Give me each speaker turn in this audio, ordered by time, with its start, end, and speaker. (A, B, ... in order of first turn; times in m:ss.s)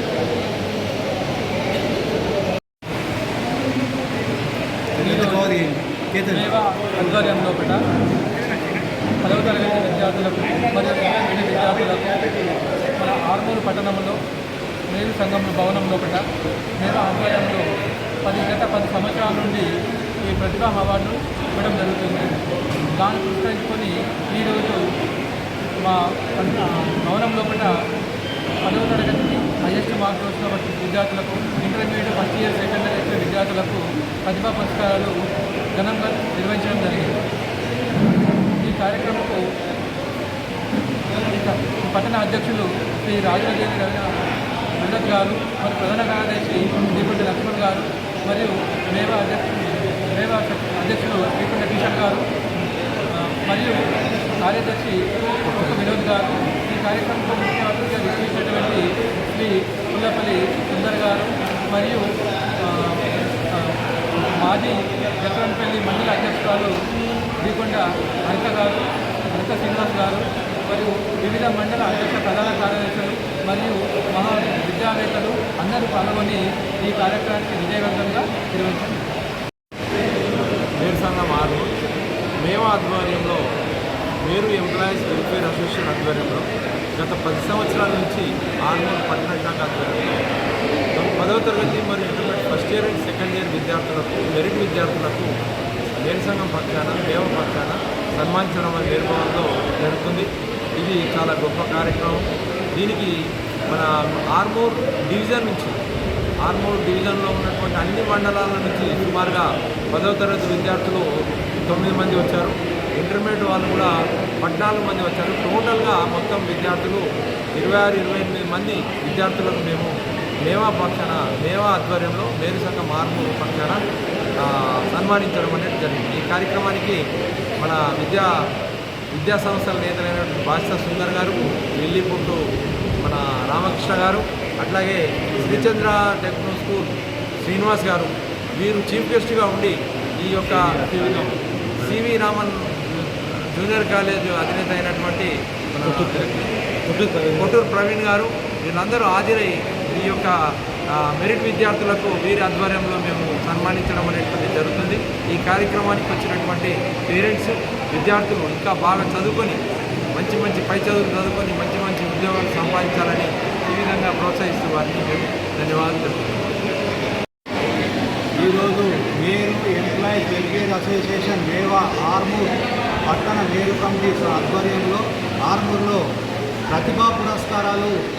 0:05.0-0:05.5 A
0:05.0-0:06.4 B
0:06.3-0:07.8 A
0:09.2-0:12.4 A
0:12.9-0:14.2 A
0:14.9-0:16.2 A
0:16.8-0:17.7 A
0:18.2-0:19.7 A
0:20.2-0:22.3 A
0:22.9-0:24.9 A
0:25.8-0:27.7 A
0:28.6-0:35.2 A
0:35.7-0:37.2 A
0:38.6-0:39.4 A
0:41.1-0:44.1 A
0:44.8-0:52.2 A
0:53.1-0:53.8 A
0:54.4-1:02.0 A
1:02.6-1:06.7 A
1:07.4-1:19.0 A
1:20.8-1:21.7 C
1:22.4-1:23.4 C
1:24.2-1:26.4 C
1:27.0-1:30.2 C
1:30.9-1:35.3 C
1:36.0-1:43.1 C
1:43.7-1:45.8 C
1:46.4-1:51.1 C
1:51.6-1:57.0 C
1:57.6-1:59.9 C
2:00.4-2:03.8 C
2:04.4-2:07.0 C
2:07.6-2:08.3 C
2:09.1-2:12.4 C
2:13.0-2:20.9 C
2:20.9-2:21.3 A
2:21.8-2:30.4 C
2:30.9-2:39.6 C
2:40.1-2:46.5 C
2:48.4-2:52.5 B
2:53.1-2:56.0 B
2:56.7-2:57.9 B